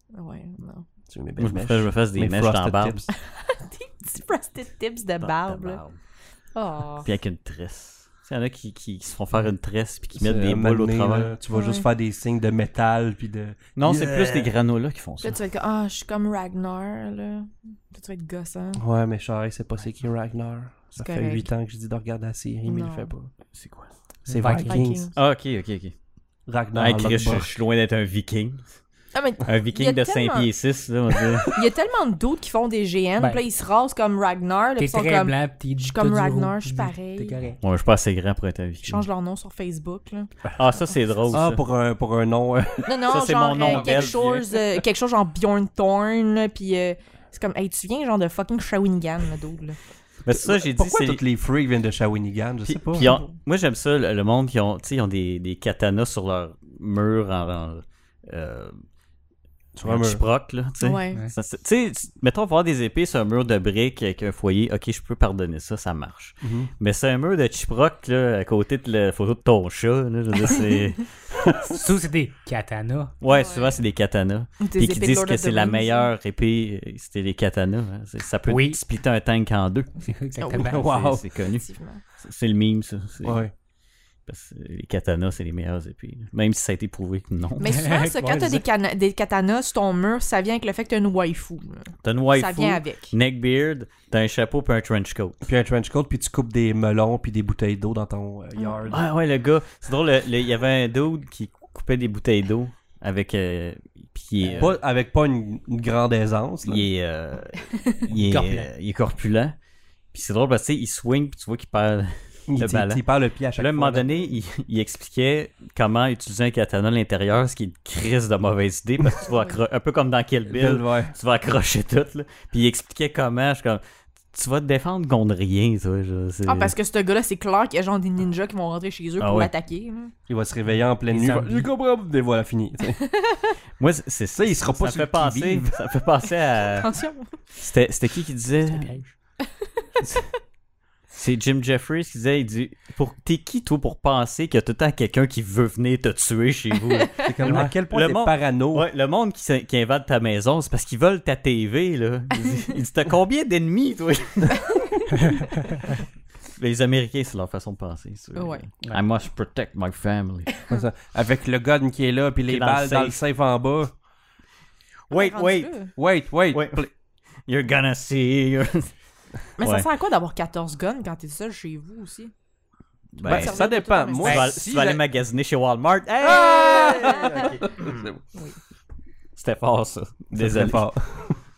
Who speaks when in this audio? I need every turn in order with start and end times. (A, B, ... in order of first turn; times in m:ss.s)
0:00.1-0:00.9 A
0:01.1-0:03.1 B
0:01.4-0:03.1 C
0:03.1-0:05.8 A
0:05.2-0:06.0 C
0:06.6-0:07.1 A
0:07.0-0:11.4 C
0:10.2-0:14.5 B
0:11.5-0:11.9 A
0:13.8-0:15.4 C
0:15.2-0:18.8 A
0:18.8-0:23.3 B
0:21.0-0:21.5 A
0:22.6-0:23.1 A
0:23.6-0:23.9 C
0:24.3-0:25.0 B
0:24.3-0:24.9 D
0:24.7-0:25.2 A
0:25.2-0:25.9 C
0:26.5-0:27.5 B
0:26.8-0:28.7 C
0:29.1-0:30.5 A
0:29.4-0:31.6 C
0:31.5-0:37.4 A
0:34.8-0:37.6 D
0:37.6-0:39.0 C
0:38.8-0:40.3 A
0:40.6-0:41.6 C
0:41.3-0:43.0 B
0:42.8-0:49.8 A
0:43.1-0:44.4 C
0:43.6-0:44.4 B
0:50.2-0:51.2 C
0:50.3-0:53.2 B
0:52.7-0:58.8 C
0:53.0-0:53.3 A
0:59.8-1:00.2 B
0:59.8-1:11.6 C
1:00.8-1:01.2 A
1:06.4-1:06.7 B
1:11.6-1:13.1 D
1:13.2-1:21.7 C
1:13.3-1:13.8 A
1:14.6-1:16.1 A
1:18.5-1:18.8 D
1:20.1-1:20.9 D
1:20.6-1:21.2 B
1:21.6-1:22.0 A
1:22.2-1:23.4 C
1:23.2-1:23.5 B
1:24.3-1:27.8 C
1:27.6-1:33.1 A
1:27.7-1:28.6 D
1:32.0-1:35.4 C
1:35.4-1:39.1 B
1:38.6-1:38.9 A
1:38.9-1:44.8 C
1:44.5-1:46.9 B
1:46.6-1:49.6 C
1:48.1-1:48.7 D
1:50.1-1:53.0 C
1:52.5-1:54.2 B
1:53.6-2:03.8 C
1:59.3-1:59.6 A
2:00.5-2:01.1 B
2:04.3-2:06.7 C
2:06.5-2:10.1 A
2:09.2-2:09.5 C
2:10.3-2:13.0 B
2:11.1-2:11.7 D
2:13.1-2:13.5 A
2:13.8-2:16.9 C
2:14.3-2:15.8 B
2:16.6-2:17.4 A
2:17.6-2:19.0 C
2:18.7-2:19.1 D
2:21.1-2:34.9 C
2:27.2-2:28.9 B
2:36.6-2:40.5 C
2:38.4-2:38.6 A
2:40.7-2:43.9 B
2:42.5-2:43.2 C
2:45.1-2:46.0 C
2:45.1-2:45.9 A
2:46.0-2:46.9 B
2:46.5-2:46.8 C
2:47.5-2:48.9 C
2:49.6-2:52.3 A
2:49.6-2:49.9 C
2:53.2-2:53.6 C
2:53.2-2:55.0 B
2:53.2-2:54.4 A
2:54.2-2:58.1 C
2:56.3-2:58.2 B
2:56.4-2:57.4 A
2:59.4-3:00.9 C
3:00.3-3:01.4 B